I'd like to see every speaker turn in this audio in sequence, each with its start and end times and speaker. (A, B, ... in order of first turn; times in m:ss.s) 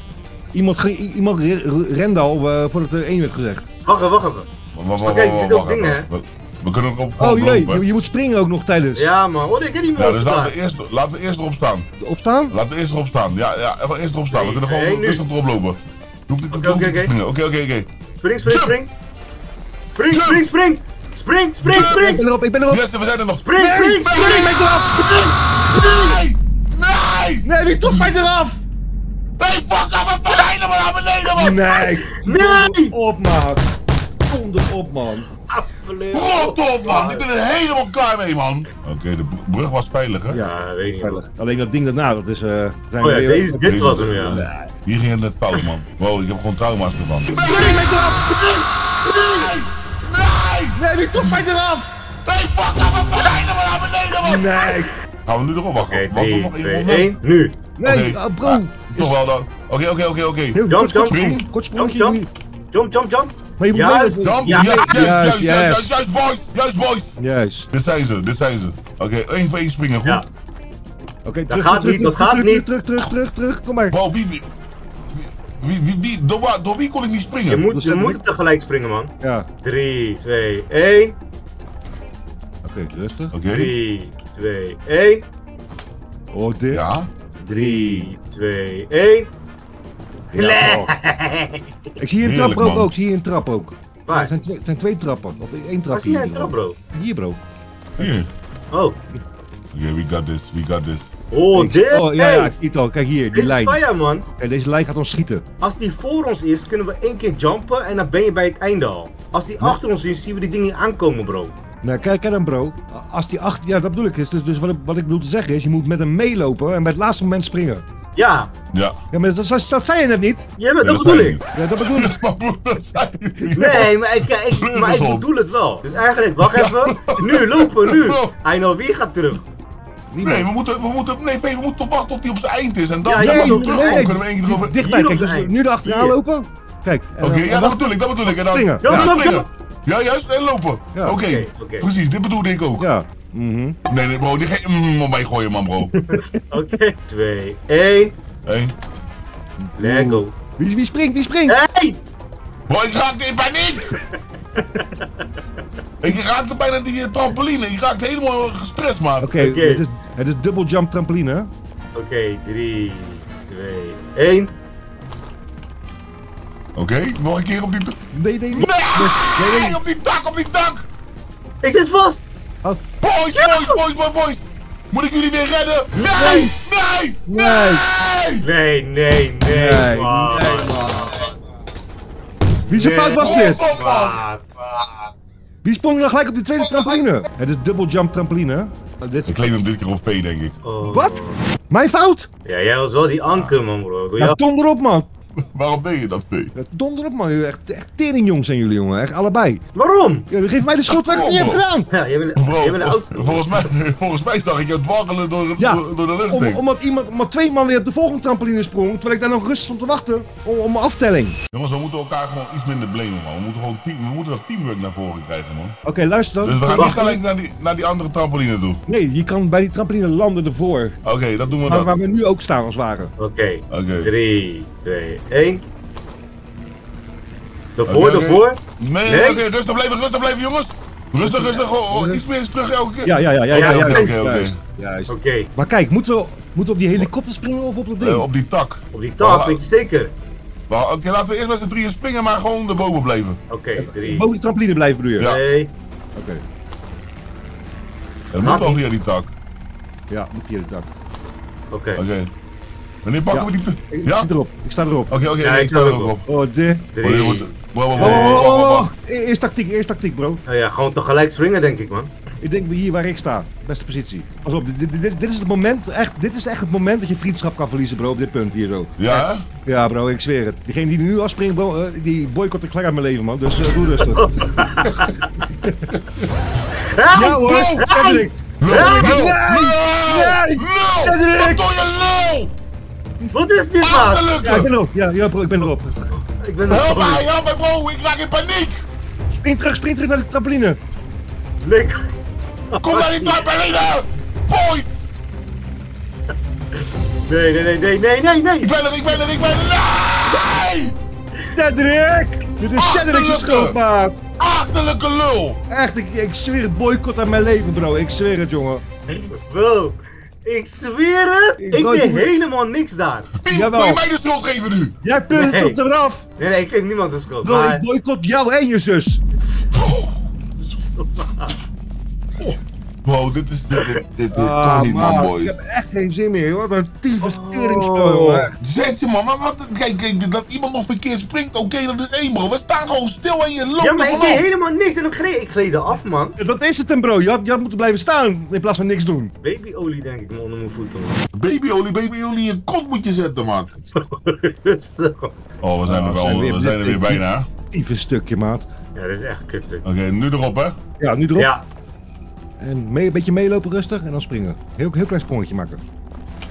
0:00.5-0:03.6 A
0:03.8-0:04.5 B
0:04.7-0:07.8 C
0:05.0-0:06.1 B
0:07.2-0:09.1 A
0:09.0-0:10.5 B
0:10.0-0:11.9 C
0:12.0-0:12.5 A
0:12.5-0:17.9 C
0:14.3-0:15.2 B
0:16.5-0:17.1 B
0:18.2-0:18.9 B
0:18.4-0:18.8 C
0:20.0-0:22.2 B
0:20.1-0:20.4 C
0:21.7-0:28.1 C
0:21.7-0:22.8 A
0:23.4-0:26.2 B
0:23.5-0:25.1 A
0:27.4-0:28.6 A
0:29.4-0:31.9 C
0:31.4-0:33.7 A
0:32.2-0:32.9 B
0:34.2-0:35.3 A
0:35.5-0:37.2 B
0:36.1-0:40.4 C
0:40.3-0:41.3 B
0:41.0-0:44.7 A
0:43.0-0:44.4 B
0:43.6-0:47.8 C
0:47.3-0:48.4 A
0:47.3-0:49.5 B
0:48.4-0:51.4 C
0:50.8-0:51.9 A
0:52.2-0:57.1 C
0:54.2-0:54.9 A
0:55.8-0:57.6 B
0:57.8-0:59.1 A
0:57.8-1:01.4 C
1:00.5-1:02.3 A
1:00.7-1:02.2 B
1:02.7-1:05.1 B
1:03.6-1:05.9 A
1:04.2-1:07.2 C
1:07.2-1:07.7 A
1:07.7-1:10.2 C
1:11.2-1:14.0 A
1:11.5-1:12.6 B
1:13.9-1:14.5 C
1:15.1-1:17.6 C
1:17.5-1:21.1 B
1:17.7-1:18.2 A
1:19.2-1:19.5 A
1:22.6-1:23.3 A
1:23.3-1:23.7 C
1:23.5-1:25.2 B
1:26.3-1:26.8 A
1:26.7-1:27.1 C
1:27.4-1:28.1 A
1:27.6-1:29.3 B
1:30.3-1:30.9 A
1:30.4-1:31.6 B
1:32.0-1:37.4 A
1:32.2-1:32.9 C
1:35.9-1:36.8 B
1:38.0-1:38.3 C
1:38.7-1:39.0 B
1:39.7-1:41.1 C
1:41.3-1:42.5 B
1:41.5-1:43.8 A
1:43.3-1:44.2 B
1:44.4-1:45.4 A
1:45.6-1:51.5 B
1:51.8-1:57.8 A
1:58.2-1:58.5 B
1:58.7-1:59.0 C
1:59.1-2:00.5 A
2:00.6-2:01.4 B
2:00.8-2:05.3 C
2:01.5-2:02.2 A
2:03.5-2:09.4 B
2:06.4-2:08.3 C
2:10.1-2:10.5 A
2:10.2-2:14.8 C
2:13.0-2:14.1 B
2:13.2-2:19.2 A
2:14.8-2:16.1 B
2:17.2-2:22.9 C
2:18.8-2:19.5 B
2:20.9-2:21.2 A
2:21.2-2:21.9 B
2:22.8-2:23.8 A
2:23.9-2:25.9 C
2:26.0-2:28.1 B
2:26.1-2:26.4 A
2:28.5-2:28.7 C
2:29.6-2:31.6 A
2:29.8-2:30.3 B
2:31.5-2:32.0 B
2:32.7-2:34.0 C
2:34.5-2:35.2 B
2:36.0-2:39.3 C
2:39.2-2:41.5 A
2:39.4-2:39.8 B
2:41.9-2:44.5 B
2:46.8-2:48.0 C
2:48.1-2:49.8 A
2:48.5-2:50.9 C
2:51.6-2:52.2 B
2:53.0-2:58.5 C
2:53.3-2:53.8 B
2:55.9-2:56.5 A
2:57.3-2:57.8 A
2:58.4-3:00.8 B
2:59.5-3:01.3 A
3:02.7-3:03.6 A
3:02.7-3:05.0 B
3:03.2-3:04.2 C
3:05.6-3:09.4 A
3:09.2-3:10.6 C
3:10.6-3:11.4 B
3:10.9-3:12.3 A
3:12.4-3:14.4 B
3:13.3-3:13.6 C
3:14.2-3:15.1 A
3:15.4-3:16.5 C
3:16.5-3:19.6 A
3:19.8-3:20.3 B
3:20.3-3:21.9 A
3:20.9-3:21.6 C
3:21.9-3:23.6 B
3:22.4-3:26.6 C
3:25.6-3:31.4 A
3:31.5-3:35.8 C
3:35.8-3:37.2 A
3:36.4-3:38.8 C
3:36.8-3:37.0 B
3:38.9-3:41.0 A
3:41.0-3:41.9 C
3:41.6-3:43.1 A
3:43.2-3:45.6 B
3:43.7-3:44.1 C
3:47.8-3:49.4 B
3:47.9-3:54.6 C
3:51.2-3:52.2 A
3:53.0-3:58.2 A
3:53.5-3:54.1 B
3:55.1-3:55.5 B
3:58.0-3:59.6 C
3:58.9-4:00.1 B
4:00.7-4:03.4 C
4:03.5-4:04.3 B
4:03.8-4:05.3 A
4:05.2-4:05.7 B
4:06.2-4:06.4 A
4:08.3-4:09.3 C
4:08.4-4:08.8 B
4:10.1-4:10.9 A
4:11.7-4:12.0 B
4:12.0-4:12.3 C
4:13.0-4:14.3 C
4:13.3-4:15.2 A
4:15.1-4:16.2 C
4:15.4-4:16.1 B
4:16.2-4:16.9 A
4:17.0-4:18.5 B
4:17.0-4:18.9 C
4:18.0-4:20.4 A
4:20.5-4:22.1 B
4:22.4-4:36.0 A
4:29.0-4:29.5 C
4:34.2-4:35.1 B
4:36.8-4:39.2 B
4:37.1-4:41.6 A
4:38.6-4:42.5 C
4:43.3-4:44.2 B
4:43.8-4:44.7 C
4:44.4-4:46.2 A
4:46.2-4:47.2 B
4:46.7-4:48.8 C
4:49.4-4:50.8 A
4:51.6-4:52.1 B
4:52.7-4:53.4 B
4:52.8-4:55.1 C
4:56.7-4:58.7 B
4:58.6-5:01.0 C
5:01.5-5:04.2 A
5:02.8-5:03.8 C
5:04.4-5:05.6 C
5:05.7-5:08.8 A
5:09.1-5:13.3 B
5:11.6-5:12.3 A
5:13.4-5:15.0 C
5:13.5-5:14.0 A
5:15.0-5:16.2 A
5:15.3-5:15.8 B
5:16.4-5:17.8 B
5:17.4-5:19.2 A
5:19.8-5:20.2 C
5:20.6-5:21.5 B
5:22.4-5:25.5 C
5:23.8-5:24.0 B
5:24.3-5:28.6 A
5:27.2-5:28.5 B
5:28.6-5:34.4 C
5:33.8-5:36.4 B
5:36.4-5:39.3 A
5:39.4-5:41.2 B
5:41.3-5:43.8 C
5:44.0-5:45.3 B
5:45.6-5:47.5 C
5:45.8-5:48.7 A
5:49.0-5:49.8 B
5:49.8-5:50.8 C
5:51.0-5:51.5 A
5:51.4-5:51.6 B
5:52.6-5:55.8 A